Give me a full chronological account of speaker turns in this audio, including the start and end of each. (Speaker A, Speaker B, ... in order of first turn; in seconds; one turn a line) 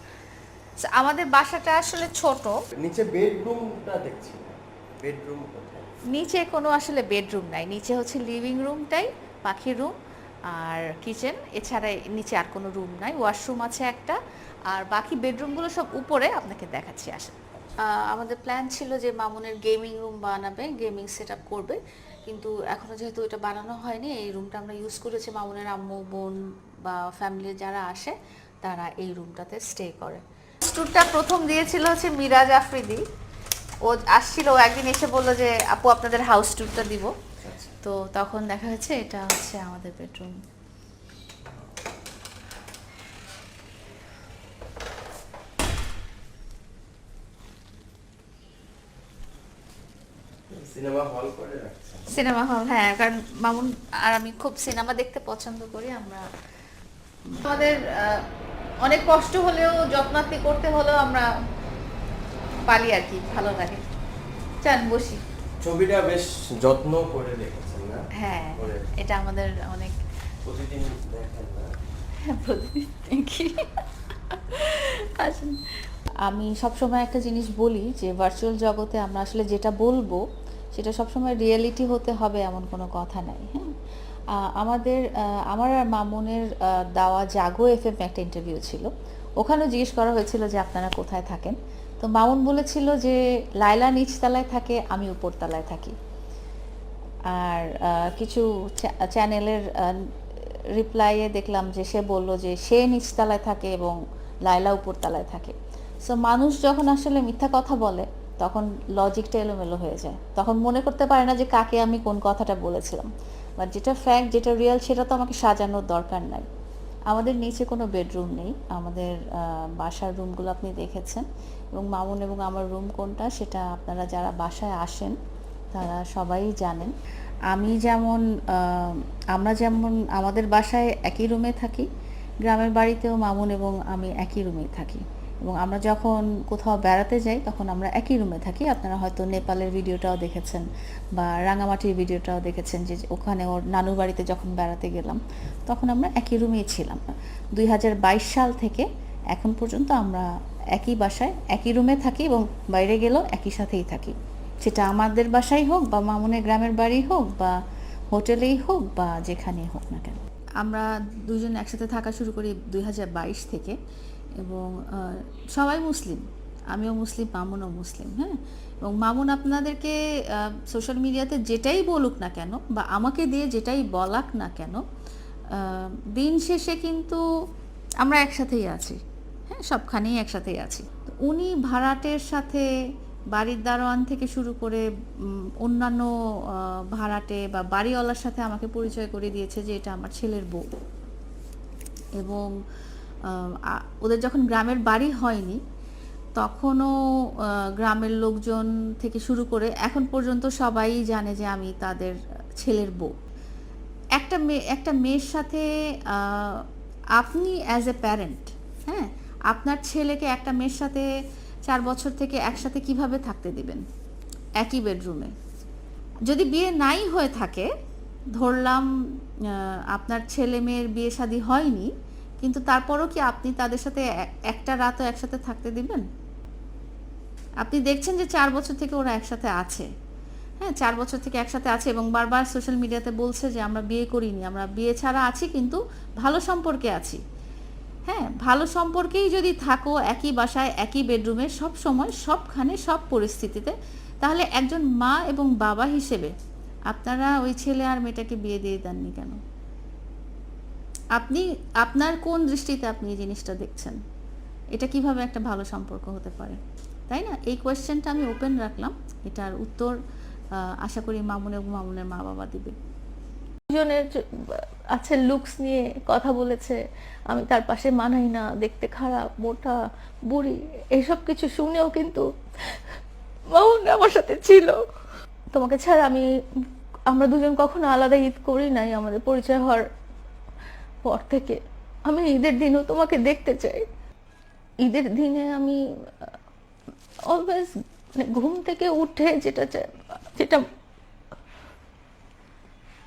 Speaker A: 0.8-2.5
Speaker B: 2.8-5.9
Speaker A: 6.1-9.9
Speaker A: 10.5-14.2
Speaker A: 14.7-17.3
Speaker A: 17.8-33.0
Speaker A: 33.9-37.1
Speaker B: 37.4-37.7
Speaker A: 37.8-40.4
Speaker B: 50.5-52.1
Speaker A: 52.1-56.2
Speaker A: 57.3-58.2
Speaker A: 58.8-61.3
Speaker A: 62.7-63.8
Speaker A: 64.6-65.2
Speaker B: 65.6-68.0
Speaker A: 68.2-69.9
Speaker B: 68.5-68.9
Speaker B: 70.4-71.7
Speaker A: 72.2-73.6
Speaker A: 74.3-75.5
Speaker A: 76.2-80.2
Speaker A: 80.7-83.7
Speaker A: 84.4-95.9
Speaker A: 97.3-99.9
Speaker A: 100.8-105.5
Speaker A: 106.0-116.5
Speaker A: 117.1-125.2
Speaker A: 125.7-126.9
Speaker A: 127.5-131.9
Speaker A: 132.4-150.2
Speaker A: 150.8-157.5
Speaker A: 158.1-163.8
Speaker A: 164.4-174.8
Speaker A: 175.6-177.2
Speaker A: 178.0-179.0
Speaker A: 179.5-182.6
Speaker A: 183.3-184.8
Speaker A: 185.6-190.6
Speaker A: 192.2-192.5
Speaker A: 193.3-195.6
Speaker A: 196.3-196.9
Speaker A: 197.5-203.1
Speaker A: 204.2-206.7
Speaker A: 207.2-211.1
Speaker A: 211.7-213.8
Speaker A: 214.6-215.3
Speaker A: 216.3-217.7
Speaker A: 218.4-218.8
Speaker A: 219.5-226.1
Speaker A: 227.6-229.8
Speaker A: 230.6-237.2
Speaker A: 238.1-246.3
Speaker A: 246.9-249.4
Speaker A: 251.2-254.0
Speaker A: 254.7-256.6
Speaker A: 257.1-259.9
Speaker A: 260.6-262.8
Speaker C: 265.0-265.4
Speaker A: 265.1-266.7
Speaker C: 266.1-266.7
Speaker C: 267.3-268.7
Speaker A: 267.5-269.4
Speaker C: 269.4-269.7
Speaker C: 271.0-272.2
Speaker A: 271.0-272.2
Speaker A: 273.6-274.7
Speaker C: 273.9-274.6
Speaker A: 275.6-276.2
Speaker A: 277.1-279.8
Speaker C: 277.2-279.4
Speaker A: 281.1-281.5
Speaker A: 282.1-283.8
Speaker C: 282.1-283.3
Speaker A: 284.9-285.7
Speaker C: 284.9-285.7
Speaker A: 287.3-287.7
Speaker A: 288.4-289.7
Speaker C: 289.2-289.6